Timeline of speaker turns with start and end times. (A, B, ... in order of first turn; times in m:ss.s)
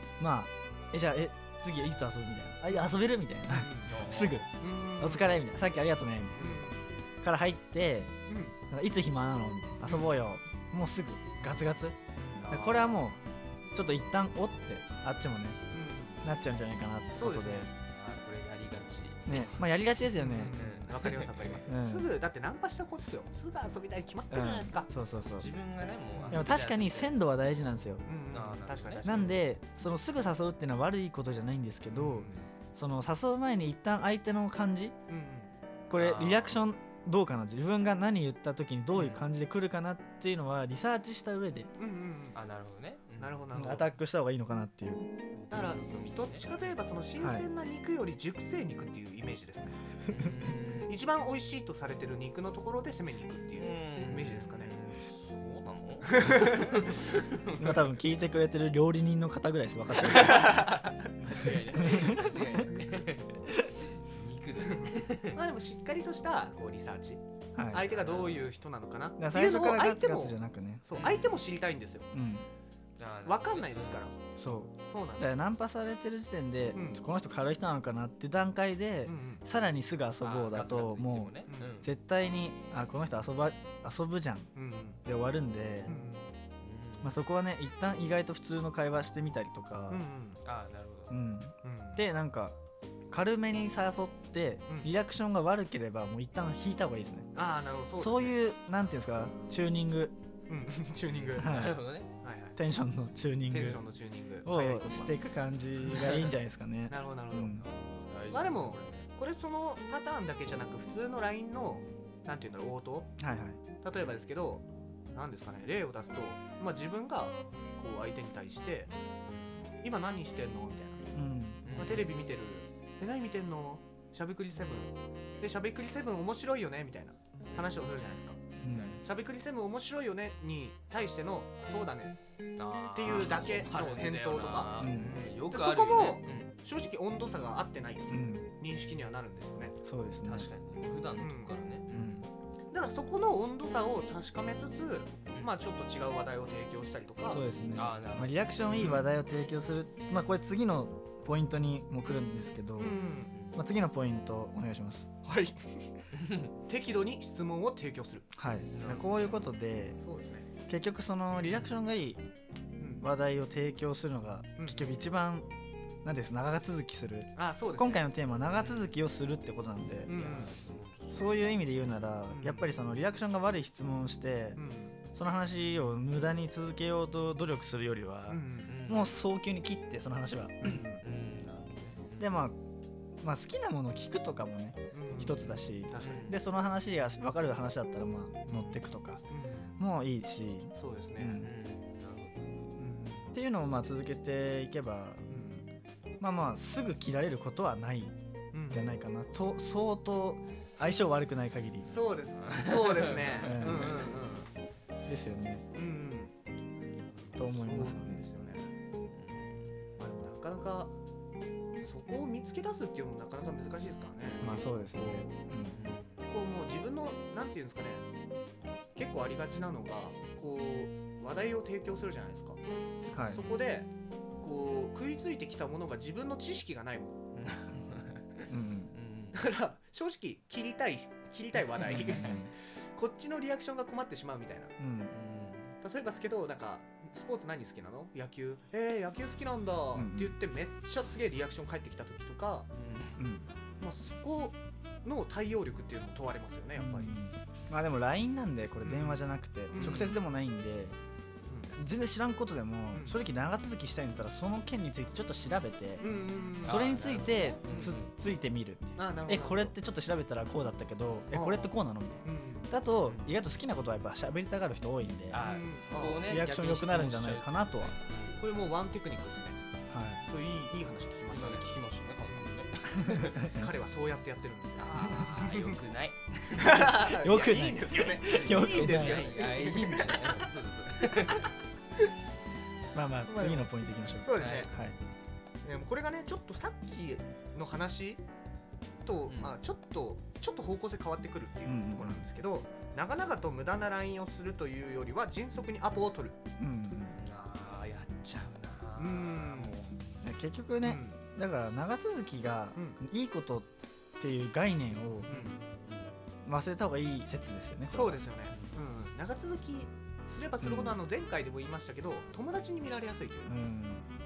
0:00.2-0:06.6 A
0:03.5-0:04.0 B
0:03.9-0:04.4 C
0:04.5-0:05.4 B
0:06.4-0:06.8 B
0:07.2-0:08.1 A
0:08.3-0:08.6 B
0:08.7-0:12.0 A
0:09.8-0:10.2 B
0:12.2-0:12.5 B
0:12.4-0:13.2 C
0:12.5-0:13.2 A
0:13.7-0:15.6 A
0:15.7-0:16.2 B
0:16.2-0:17.7 A
0:17.1-0:17.7 B
0:17.9-0:19.7 C
0:19.2-0:20.6 A
0:20.2-0:24.9 B
0:20.4-0:21.6 C
0:21.6-0:22.1 A
0:24.3-0:25.5 A
0:25.2-0:27.2 C
0:26.1-0:26.5 B
0:26.3-0:28.0 A
0:28.0-0:29.4 B
0:28.3-0:29.4 C
0:29.0-0:35.0 A
0:31.9-0:32.5 B
0:35.1-0:35.5 B
0:35.9-0:41.7 A
0:35.9-0:36.6 C
0:38.9-0:39.2 C
0:41.8-0:42.4 B
0:42.3-0:43.4 C
0:43.2-0:43.9 B
0:43.5-0:45.1 A
0:45.3-0:46.8 C
0:45.5-0:50.0 B
0:47.2-0:47.4 A
0:50.1-0:50.9 C
0:50.8-0:54.7 B
0:53.6-0:57.8 C
0:56.1-0:56.8 B
0:57.6-1:00.7 A
1:00.1-1:01.0 B
1:01.2-1:05.4 C
1:01.7-1:02.6 A
1:04.8-1:12.1 B
1:07.6-1:07.8 A
1:07.9-1:08.5 C
1:09.2-1:10.8 A
1:10.9-1:11.3 C
1:12.1-1:12.5 A
1:13.0-1:14.0 C
1:13.2-1:14.1 B
1:14.4-1:24.5 A
1:14.8-1:15.5 B
1:16.7-1:17.0 B
1:19.0-1:19.4 B
1:20.2-1:21.9 C
1:24.5-1:25.0 B
1:25.0-1:26.0 A
1:25.9-1:26.2 B
1:26.6-1:27.2 C
1:27.0-1:30.0 A
1:29.9-1:30.4 B
1:30.4-1:31.2 C
1:31.1-1:32.6 A
1:31.6-1:32.0 B
1:33.1-1:37.4 A
1:37.3-1:38.4 B
1:38.0-1:40.1 A
1:40.5-1:41.6 B
1:41.1-1:42.1 C
1:41.4-1:41.8 A
1:42.2-1:42.6 B
1:42.6-1:43.8 A
1:43.5-1:45.2 B
1:44.4-1:47.7 A
1:46.0-1:46.3 C
1:46.9-1:47.5 B
1:47.6-1:49.1 C
1:48.3-1:53.1 B
1:53.2-1:53.6 A
1:53.8-1:58.9 B
1:59.8-2:01.1 B
2:01.1-2:01.7 A
2:01.6-2:02.1 C
2:01.6-2:08.4 B
2:08.6-2:09.0 A
2:08.7-2:09.0 C
2:09.0-2:12.2 B
2:12.6-2:16.5 C
2:12.9-2:19.8 B
2:14.8-2:15.1 A
2:18.1-2:18.5 A
2:19.8-2:20.5 A
2:20.2-2:22.2 C
2:21.2-2:22.0 B
2:21.9-2:22.3 A
2:22.7-2:27.4 B
2:27.3-2:33.0 A
2:27.3-2:28.9 C
2:28.7-2:29.0 B
2:32.8-2:33.3 B
2:33.5-2:35.1 A
2:35.2-2:35.9 B
2:36.2-2:36.5 C
2:36.6-2:38.3 B
2:38.4-2:40.0 A
2:38.7-2:39.4 C
2:40.0-2:40.5 B
2:40.7-2:42.2 A
2:42.8-2:43.1 B
2:43.0-2:45.5 A
2:44.6-2:45.0 B
2:46.0-2:50.3 A
2:47.4-2:48.1 B
2:48.5-2:49.0 C
2:50.1-2:50.5 B
2:50.1-2:51.4 C
2:51.1-2:54.6 A
2:52.3-2:52.7 B
2:54.6-2:55.0 B
2:55.1-3:00.8 A
2:58.3-2:58.7 B
2:58.6-2:59.1 C
3:00.6-3:01.0 B
3:01.0-3:02.4 C
3:02.2-3:02.6 A
3:03.2-3:09.2 A
3:04.9-3:06.3 B
3:06.0-3:06.4 C
3:08.5-3:09.8 B
3:09.8-3:11.5 A
3:10.8-3:11.4 B
3:11.3-3:12.8 C
3:12.8-3:13.3 B
3:13.3-3:15.3 A
3:15.3-3:15.6 B
3:16.2-3:18.2 A
3:18.5-3:18.9 B
3:18.7-3:22.0 A
3:21.8-3:24.5 B
3:22.4-3:23.9 C
3:23.4-3:23.9 A
3:25.0-3:25.6 A
3:25.7-3:26.3 B
3:27.3-3:28.7 B
3:27.4-3:28.2 A
3:29.1-3:29.7 C
3:30.0-3:30.9 B
3:31.8-3:35.4 B
3:34.4-3:35.8 A
3:35.7-3:36.2 C
3:36.3-3:38.0 B
3:38.9-3:42.6 B
3:43.1-3:43.4 A
3:43.2-3:43.9 B
3:44.4-3:47.1 B
3:47.4-3:49.4 C
3:48.5-3:48.9 A
3:49.3-3:54.7 B
3:51.8-3:52.5 A
3:54.8-3:55.2 A
3:55.1-3:55.7 C
3:55.8-4:02.7 B
3:59.9-4:00.4 A
4:02.7-4:03.2 C
4:03.2-4:03.5 A
4:03.8-4:07.1 B
4:06.8-4:11.0 A
4:08.8-4:10.2 B
4:11.5-4:11.8 B
4:11.7-4:16.1 A
4:12.9-4:13.2 B
4:16.0-4:16.8 B
4:16.6-4:25.4 A
4:16.6-4:18.1 C
4:17.6-4:18.0 B
4:19.0-4:19.8 B
4:21.3-4:22.7 B
4:23.0-4:23.3 C
4:25.3-4:28.4 C
4:25.4-4:26.2 B
4:26.2-4:27.9 A
4:28.4-4:29.6 B
4:29.9-4:30.2 A
4:30.2-4:32.5 B
4:31.3-4:33.6 C
4:33.0-4:33.6 A
4:33.4-4:35.8 B
4:35.0-4:36.9 C
4:36.6-4:40.3 B
4:36.6-4:39.4 A
4:38.3-4:41.5 C
4:42.9-4:45.0 A
4:43.3-4:44.7 B
4:44.4-4:44.7 C
4:45.6-4:48.2 B
4:49.0-4:56.4 B
4:49.3-4:49.6 C
4:51.7-4:52.2 A
4:56.6-4:57.2 A
4:57.2-5:00.0 C
4:59.0-4:59.8 B
5:00.2-5:05.3 A
5:00.8-5:01.2 B
5:05.3-5:05.6 B
5:05.3-5:06.1 C
5:06.4-5:08.2 A
5:07.8-5:13.5 B
5:08.5-5:08.8 C
5:10.6-5:11.0 A
5:13.4-5:14.1 A